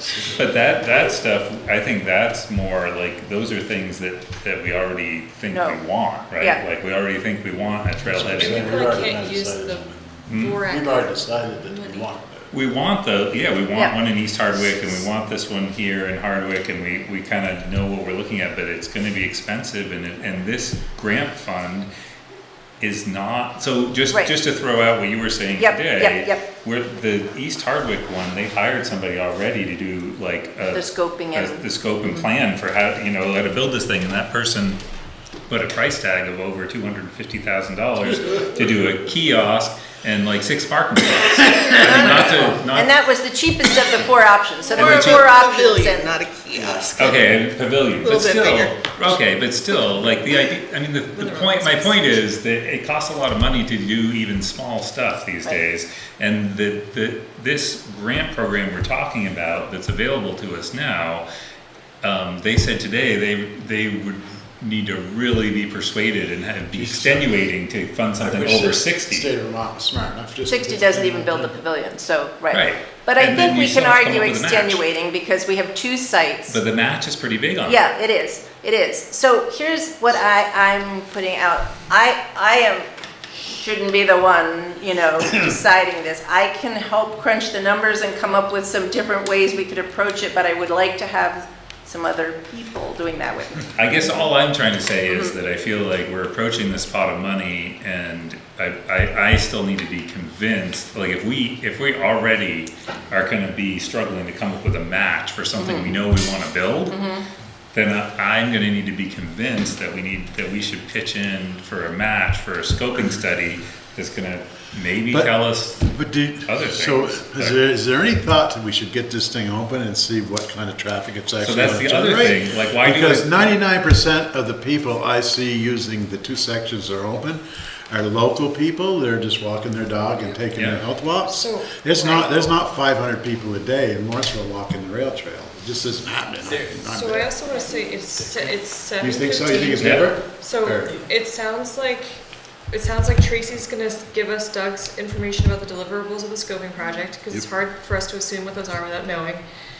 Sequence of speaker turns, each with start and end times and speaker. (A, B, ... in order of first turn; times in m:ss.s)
0:00.2-0:09.0 A
0:05.5-0:05.8 B
0:06.4-0:06.6 B
0:08.0-0:10.0 C
0:08.4-0:12.1 D
0:10.3-0:10.6 A
0:10.6-0:12.5 C
0:12.5-0:21.9 A
0:22.8-0:34.8 A
0:25.6-0:26.4 B
0:30.7-0:31.6 B
0:35.5-0:42.9 A
0:41.5-0:46.2 B
0:44.7-0:47.4 E
0:44.7-0:45.3 A
0:47.0-1:01.2 A
0:48.0-0:49.2 E
0:51.1-0:52.2 D
1:02.0-1:09.3 A
1:06.7-1:07.4 C
1:08.2-1:11.5 C
1:10.4-1:16.6 B
1:12.5-1:14.8 A
1:16.5-1:17.8 A
1:17.6-1:22.8 B
1:23.5-1:34.3 B
1:33.8-1:47.0 A
1:35.1-1:35.3 B
1:45.6-1:45.9 B
1:46.9-1:47.2 B
1:47.7-1:55.9 A
1:55.1-2:17.5 C
1:56.4-1:57.6 A
2:01.4-2:03.4 A
2:10.6-2:10.8 A
2:11.2-2:12.6 D
2:16.9-2:29.4 D
2:18.2-2:21.0 C
2:19.8-2:20.1 A